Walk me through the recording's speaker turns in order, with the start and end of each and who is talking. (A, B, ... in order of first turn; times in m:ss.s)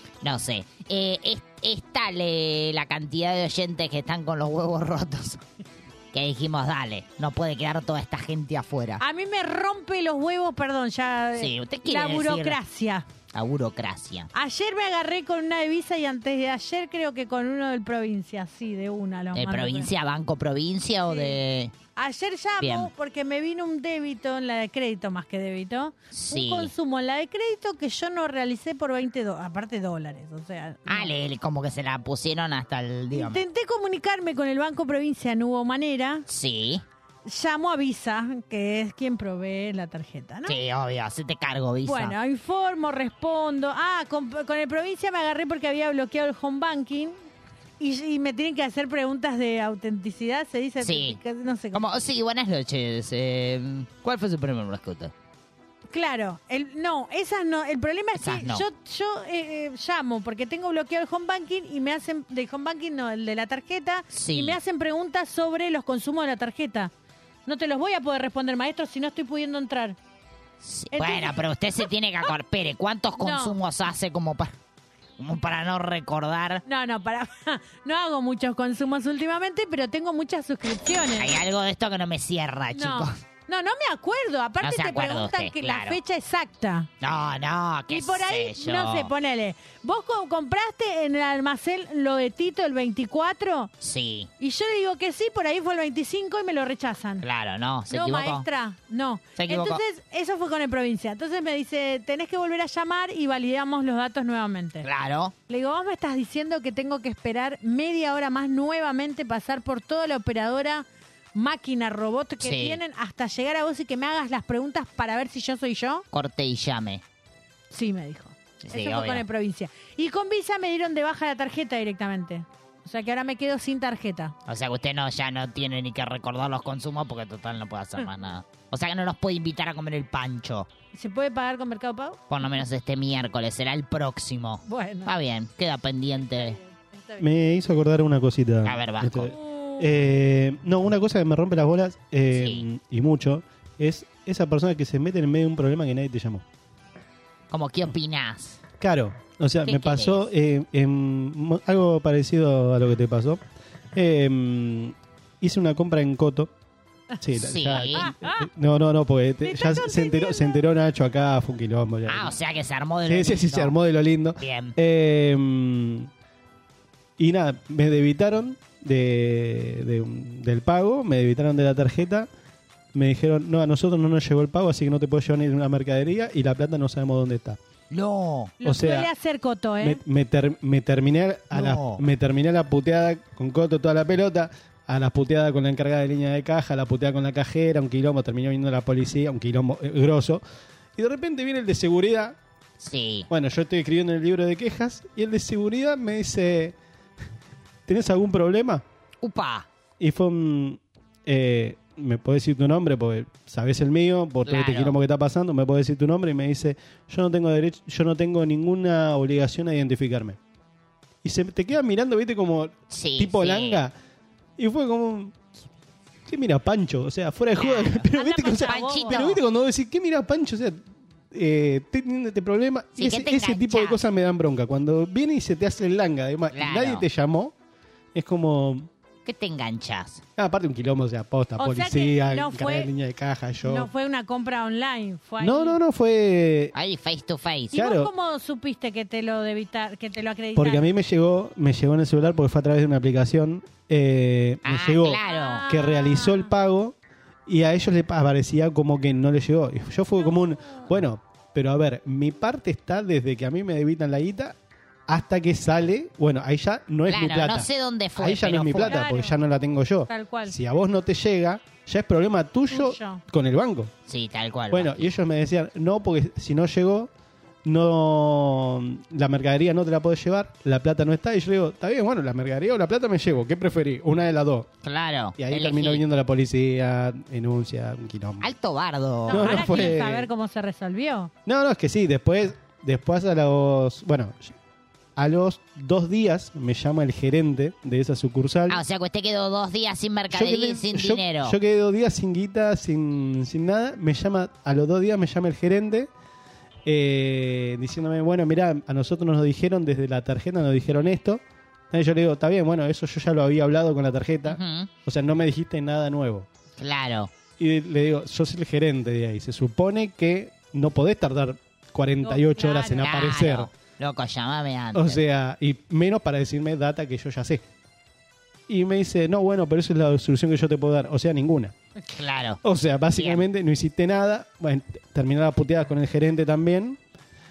0:00.2-0:05.4 A
0:06.1-0:09.0 A
0:09.0-0:13.1 B
0:11.4-0:12.6 A
0:13.3-0:14.3 A
0:14.3-0:19.9 B
0:19.3-0:21.7 A
0:21.1-0:21.4 B
0:22.0-0:31.1 B
0:22.6-0:22.9 A
0:26.1-0:26.7 A
0:30.9-0:33.4 A
0:33.1-0:36.3 B
0:36.3-0:36.8 A
0:37.3-0:40.6 B
0:40.5-0:42.2 A
0:41.8-0:47.2 B
0:47.8-0:51.8 B
0:50.8-0:51.2 A
0:51.7-0:55.1 A
0:55.9-1:06.9 B
0:58.2-0:58.6 A
1:04.1-1:04.6 A
1:07.5-1:10.0 B
1:10.6-1:14.6 A
1:10.9-1:11.4 B
1:13.2-1:13.6 B
1:15.2-1:16.6 A
1:16.7-1:21.3 B
1:21.2-1:23.2 A
1:22.7-1:26.9 B
1:24.6-1:26.0 A
1:27.0-1:29.1 A
1:27.9-1:33.7 B
1:33.8-1:34.3 A
1:34.4-1:37.3 B
1:37.2-1:38.5 A
1:37.9-1:44.9 B
1:39.4-1:39.8 A
1:44.8-1:45.3 A
1:45.5-1:56.0 B
1:52.4-1:52.8 A
1:56.1-1:57.0 A
1:57.7-2:04.4 B
1:58.6-1:59.2 A
2:04.5-2:10.7 A
2:10.9-2:12.2 B
2:12.3-2:16.6 A
2:14.7-2:15.1 B
2:16.2-2:17.5 B
2:17.2-2:26.4 C
2:18.6-2:19.3 A
2:19.3-2:19.8 B
2:22.3-2:22.6 A
2:27.5-2:28.6 A
2:28.8-2:33.4 C
2:29.6-2:30.2 A
2:33.9-2:36.5 C
2:37.2-2:42.4 C
2:37.4-2:38.1 A
2:38.0-2:38.4 B
2:39.4-2:40.6 B
2:42.1-2:43.7 A
2:43.0-2:46.1 C
2:44.4-2:44.8 A
2:47.2-2:52.3 C
2:52.9-2:57.6 C
2:57.9-2:58.6 A
2:58.6-3:00.0 B
2:58.6-2:59.1 C
2:59.8-3:10.4 C
3:01.5-3:02.0 A
3:11.0-3:12.4 C
3:12.8-3:13.3 A
3:13.3-3:16.8 C
3:17.9-3:18.8 C
3:19.2-3:19.7 A
3:20.0-3:30.4 C
3:24.5-3:25.0 A
3:31.2-3:34.0 C
3:32.9-3:33.8 A
3:34.6-3:35.4 C
3:36.3-3:47.5 C
3:37.6-3:38.1 A
3:38.1-3:39.4 B
3:38.6-3:39.4 A
3:43.0-3:44.0 A
3:46.5-3:47.0 A
3:48.2-3:48.9 C
3:49.2-3:50.2 A
3:50.4-3:53.9 C
3:51.6-3:52.9 B
3:53.6-3:55.8 B
3:55.4-3:56.7 C
3:56.7-3:57.8 A
3:57.7-4:00.8 B
3:57.7-3:58.1 C
4:00.6-4:07.0 C
4:04.6-4:05.6 A
4:05.2-4:06.5 B
4:07.5-4:14.6 C
4:15.1-4:23.9 C
4:17.1-4:19.0 A
4:18.8-4:19.4 B
4:20.1-4:20.6 B
4:22.7-4:23.2 B
4:24.1-4:25.1 A
4:24.7-4:27.1 C
4:27.6-4:34.7 C
4:34.8-4:36.0 A
4:35.4-4:38.5 C
4:38.4-4:39.9 A
4:39.3-4:41.3 B
4:39.3-4:40.3 C
4:41.5-4:44.6 C
4:45.2-4:48.8 C
4:48.7-4:51.6 A
4:50.3-4:56.1 C
4:56.8-5:06.5 C
5:04.5-5:04.9 A
5:06.8-5:07.3 A
5:07.6-5:13.7 C
5:12.2-5:13.1 B
5:13.0-5:15.2 A
5:14.9-5:17.6 C
5:18.7-5:21.8 C
5:22.1-5:22.6 A
5:22.6-5:27.0 C
5:23.1-5:23.4 A